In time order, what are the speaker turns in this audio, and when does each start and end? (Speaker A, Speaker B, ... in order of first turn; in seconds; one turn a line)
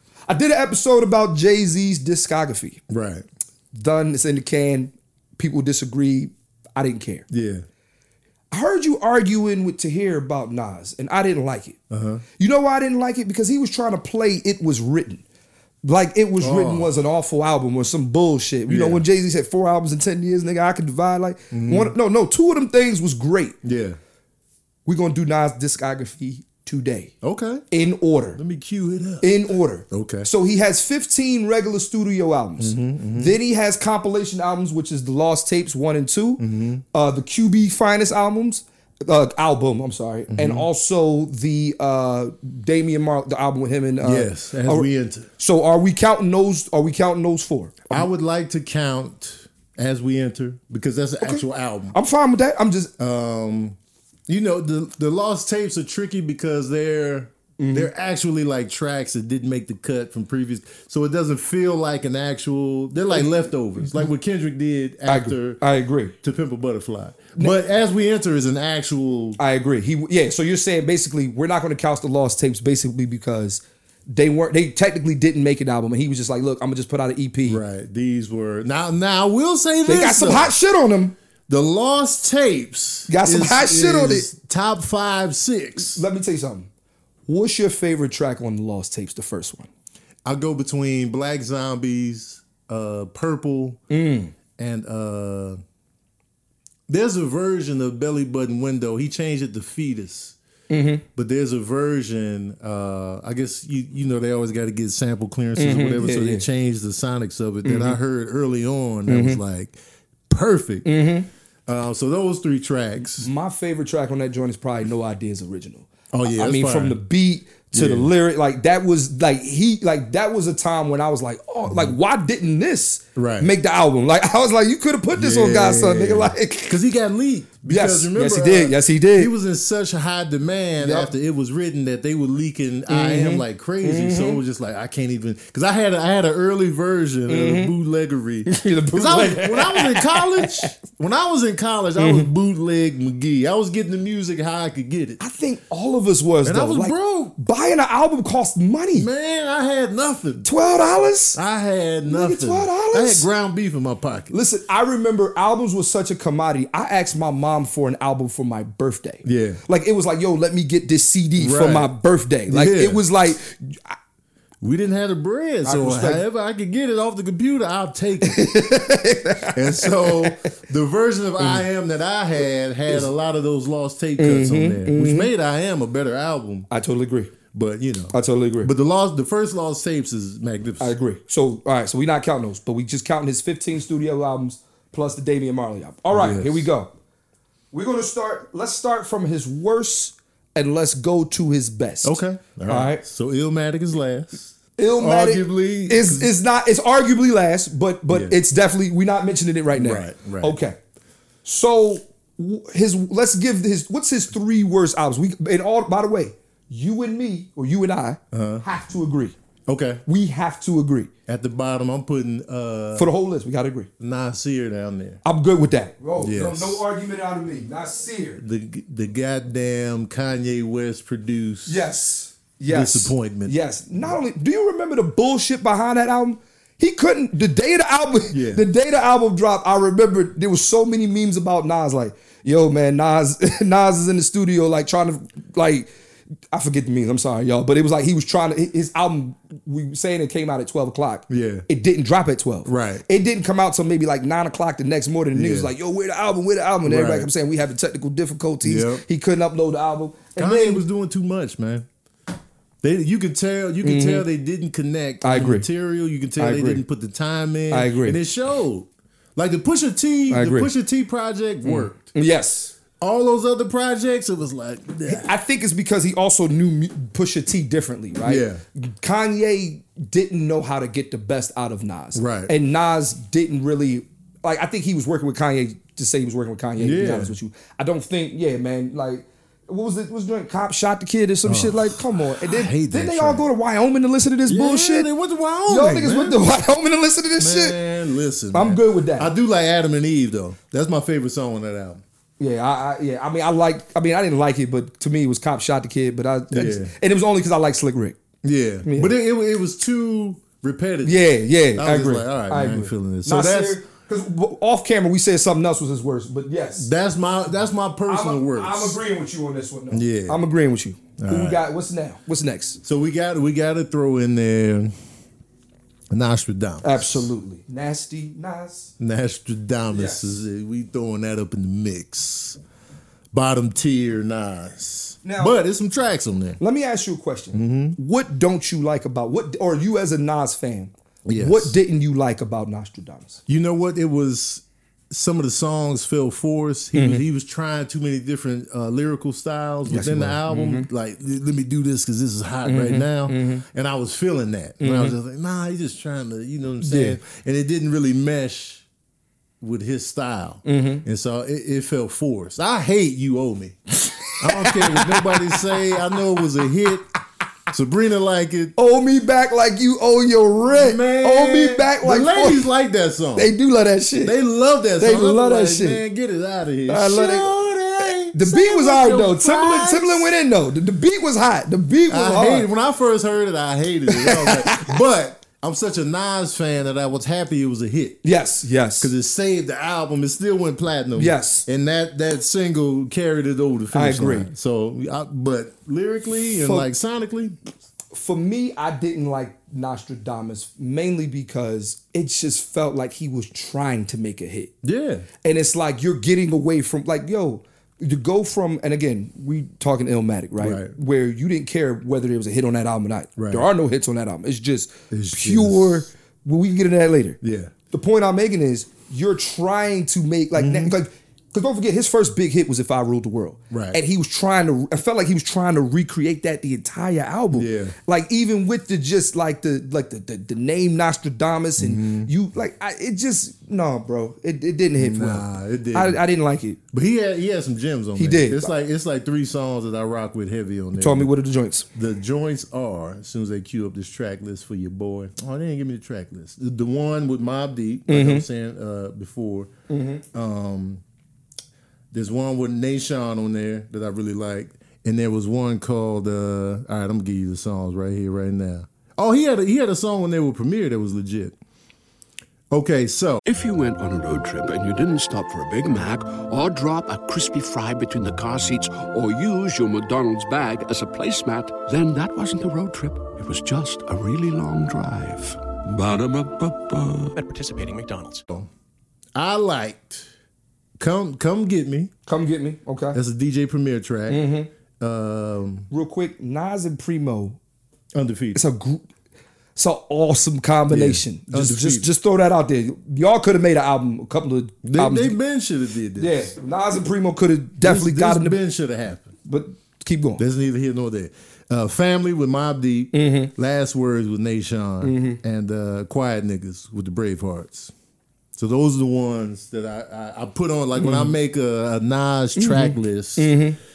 Speaker A: 0.3-2.8
Speaker B: 2.9-3.2
Speaker A: 3.7-7.2
Speaker B: 7.3-7.6
Speaker A: 8.5-11.8
Speaker B: 11.9-12.2
Speaker A: 12.4-15.2
Speaker A: 15.8-23.5
Speaker B: 16.4-16.9
Speaker B: 18.7-19.0
Speaker B: 21.5-21.9
Speaker B: 23.6-24.0
Speaker A: 24.9-27.1
Speaker B: 27.2-27.6
Speaker A: 27.7-28.4
Speaker B: 28.4-29.3
Speaker A: 29.2-48.0
Speaker B: 29.9-30.3
Speaker B: 32.6-33.4
Speaker B: 36.4-36.8
Speaker B: 40.3-40.7
Speaker B: 44.0-45.3
Speaker B: 47.9-51.9
Speaker A: 51.2-52.9
Speaker B: 53.0-53.8
Speaker B: 54.3-65.6
Speaker A: 57.6-57.9
Speaker A: 63.8-64.1
Speaker A: 65.1-66.1
Speaker B: 66.2-69.4
Speaker A: 69.4-77.6
Speaker B: 77.5-80.5
Speaker A: 79.8-81.1
Speaker B: 81.5-86.0
Speaker A: 83.1-84.3
Speaker A: 85.8-86.7
Speaker A: 87.3-89.7
Speaker B: 90.2-93.8
Speaker A: 93.9-94.3
Speaker B: 94.6-95.6
Speaker B: 96.9-100.3
Speaker A: 100.7-101.0
Speaker B: 101.2-109.8
Speaker A: 105.6-106.5
Speaker A: 107.6-108.0
Speaker A: 109.1-109.4
Speaker B: 110.3-110.9
Speaker A: 110.8-111.3
Speaker B: 111.7-113.3
Speaker A: 113.2-126.8
Speaker B: 116.1-117.0
Speaker B: 117.7-118.1
Speaker B: 121.7-121.9
Speaker B: 123.1-123.5
Speaker B: 125.1-145.2
Speaker A: 127.6-129.3
Speaker A: 130.8-131.1
Speaker A: 132.9-134.4
Speaker A: 137.3-137.7
Speaker A: 138.4-140.7
Speaker A: 142.0-142.3
Speaker A: 145.2-149.1
Speaker B: 146.4-147.3
Speaker B: 148.9-150.5
Speaker A: 150.4-151.4
Speaker B: 151.3-154.4
Speaker A: 152.0-153.3
Speaker A: 154.3-164.0
Speaker B: 159.2-159.6
Speaker B: 161.4-161.9
Speaker B: 162.5-163.1
Speaker B: 164.6-168.5
Speaker A: 165.6-166.2
Speaker A: 168.2-170.5
Speaker B: 169.4-176.7
Speaker A: 174.2-175.3
Speaker A: 176.7-177.3
Speaker B: 177.5-180.9
Speaker A: 178.1-178.7
Speaker A: 180.8-186.9
Speaker B: 186.1-186.7
Speaker A: 187.7-193.0
Speaker B: 192.0-196.3
Speaker A: 194.8-200.8
Speaker B: 198.1-198.4
Speaker B: 199.7-200.6
Speaker A: 201.4-209.3
Speaker B: 208.3-208.6
Speaker B: 209.7-210.0
Speaker A: 210.1-211.1
Speaker B: 211.3-213.1
Speaker A: 212.9-213.9
Speaker B: 214.0-215.2
Speaker A: 215.2-218.4
Speaker B: 216.2-216.8
Speaker B: 218.4-221.8
Speaker A: 221.7-235.9
Speaker B: 222.7-224.1
Speaker B: 228.3-228.6
Speaker A: 236.5-250.8
Speaker B: 241.3-241.7
Speaker B: 242.7-243.1
Speaker B: 245.3-245.7
Speaker B: 246.8-247.3
Speaker B: 248.6-249.0
Speaker B: 250.4-251.9
Speaker B: 252.8-262.1
Speaker A: 253.8-254.2
Speaker A: 255.2-255.7
Speaker A: 256.4-256.8
Speaker A: 257.7-258.2
Speaker A: 260.3-260.7
Speaker A: 261.6-262.7
Speaker B: 263.0-265.3
Speaker A: 265.1-285.1
Speaker B: 268.2-268.6
Speaker B: 272.1-272.5
Speaker B: 276.8-277.3
Speaker B: 281.4-283.5
Speaker B: 284.5-286.4
Speaker A: 285.7-287.8
Speaker B: 287.4-292.0
Speaker A: 288.5-289.3
Speaker A: 292.4-298.2
Speaker B: 296.5-296.9
Speaker B: 298.4-303.8
Speaker A: 298.8-299.1
Speaker A: 301.0-306.9
Speaker B: 306.8-309.0
Speaker A: 308.1-312.8
Speaker B: 309.9-310.4
Speaker B: 311.2-311.6
Speaker B: 312.8-314.9
Speaker B: 316.1-317.3
Speaker A: 316.8-318.9
Speaker B: 319.0-322.6
Speaker A: 319.9-320.2
Speaker B: 323.3-326.6
Speaker A: 325.2-325.6
Speaker A: 326.6-333.4
Speaker B: 327.5-328.0
Speaker B: 331.2-331.8
Speaker B: 333.5-348.8
Speaker A: 336.9-337.2
Speaker A: 339.9-340.9
Speaker A: 342.6-343.6
Speaker A: 344.8-345.1
Speaker A: 346.8-347.2
Speaker B: 349.6-353.8
Speaker A: 350.6-351.0
Speaker A: 354.0-356.2
Speaker B: 354.4-357.1
Speaker B: 357.7-358.7
Speaker A: 358.8-362.7
Speaker B: 360.7-363.5
Speaker A: 363.4-364.3
Speaker B: 364.2-370.3
Speaker A: 365.0-366.0
Speaker A: 366.9-367.5
Speaker A: 368.0-372.7
Speaker B: 372.1-378.2
Speaker A: 374.1-375.0
Speaker A: 378.2-379.1
Speaker B: 379.0-387.5
Speaker A: 381.2-381.6
Speaker A: 383.9-384.5
Speaker A: 386.6-386.9
Speaker A: 388.1-394.7
Speaker B: 394.8-395.3
Speaker A: 395.4-407.4
Speaker B: 400.6-400.9
Speaker B: 403.4-403.6
Speaker B: 405.1-406.1
Speaker B: 407.4-407.7
Speaker A: 407.9-426.8
Speaker B: 410.6-410.9
Speaker B: 413.7-414.0
Speaker B: 417.5-417.9
Speaker B: 421.8-422.3
Speaker B: 424.9-426.2
Speaker B: 426.9-431.3
Speaker A: 428.1-428.7
Speaker A: 431.0-431.9
Speaker B: 431.9-439.7
Speaker A: 438.1-438.4
Speaker A: 439.9-440.2
Speaker B: 440.3-441.0
Speaker B: 442.1-451.6
Speaker B: 452.7-453.4
Speaker C: 453.4-467.5
Speaker B: 469.3-470.3
Speaker B: 471.0-472.1
Speaker A: 472.3-473.2
Speaker B: 473.1-474.4
Speaker A: 474.3-474.7
Speaker B: 475.0-475.9
Speaker A: 475.9-477.6
Speaker B: 478.1-478.6
Speaker A: 478.5-479.0
Speaker A: 479.8-485.4
Speaker B: 480.9-482.1
Speaker B: 484.8-486.5
Speaker A: 486.2-488.6
Speaker B: 487.8-489.3
Speaker A: 489.4-490.4
Speaker B: 490.4-497.9
Speaker A: 493.1-493.5
Speaker A: 495.0-495.4
Speaker B: 498.6-503.6
Speaker A: 501.0-501.3
Speaker A: 502.6-503.8